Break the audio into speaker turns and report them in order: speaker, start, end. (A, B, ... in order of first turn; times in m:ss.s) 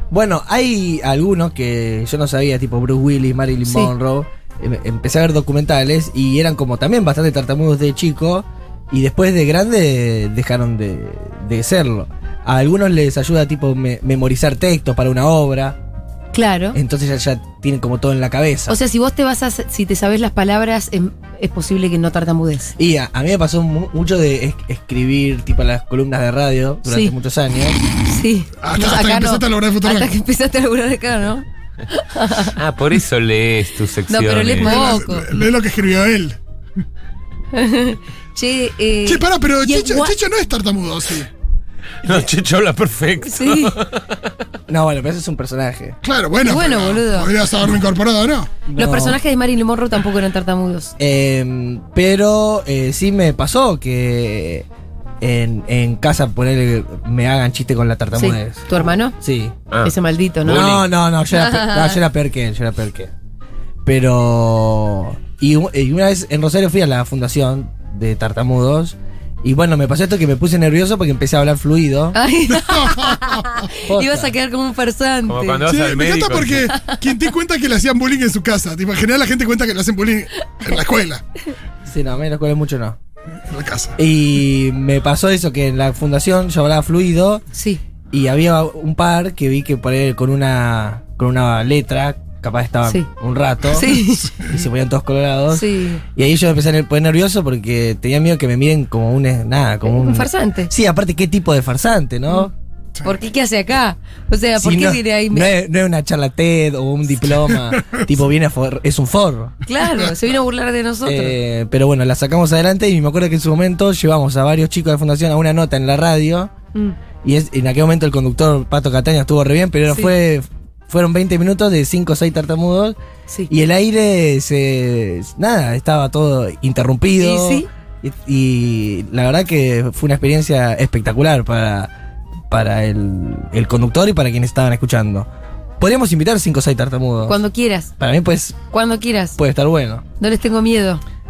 0:00.1-0:15.8 A
0:03.7-0:03.9 B
0:16.3-0:16.8 B
0:16.7-0:18.8 A
0:18.7-0:22.7 B
0:22.8-0:27.8 A
0:26.9-0:27.2 B
0:28.0-0:32.6 B
0:28.6-0:30.2 C
0:32.6-0:35.0 D
0:34.1-0:35.3 B
0:34.6-0:36.4 C
0:37.5-0:40.2 B
0:39.0-0:41.3 C
0:42.0-0:44.3 D
0:43.2-0:43.8 B
0:44.7-0:46.0 A
0:46.0-0:48.6 C
0:46.4-0:47.3 B
0:48.7-0:49.2 A
0:48.7-0:50.9 B
0:51.0-0:54.7 A
0:55.2-0:59.5 A
0:58.2-0:59.2 B
0:59.8-1:00.7 B
1:00.4-1:00.9 D
1:00.5-1:03.1 A
1:01.5-1:01.9 B
1:03.9-1:12.2 A
1:12.1-1:15.6 B
1:12.5-1:13.3 C
1:13.8-1:14.4 A
1:15.3-1:16.7 D
1:15.6-1:21.2 C
1:16.7-1:17.0 B
1:21.9-1:23.0 A
1:23.5-1:24.0 C
1:24.0-1:27.4 A
1:27.5-1:27.8 B
1:28.1-1:42.5 A
1:33.7-1:34.4 B
1:35.5-1:36.0 B
1:39.8-1:40.7 B
1:43.0-1:45.5 B
1:44.6-1:49.6 A
1:49.7-1:51.4 B
1:51.0-1:56.5 A
1:57.2-2:03.0 A
2:03.5-2:11.9 A
2:07.2-2:07.7 B
2:12.5-2:15.3 A
2:15.8-2:17.4 A
2:17.2-2:17.9 B
2:18.0-2:18.6 A
2:18.7-2:19.4 B
2:19.4-2:20.0 A
2:20.2-2:21.0 B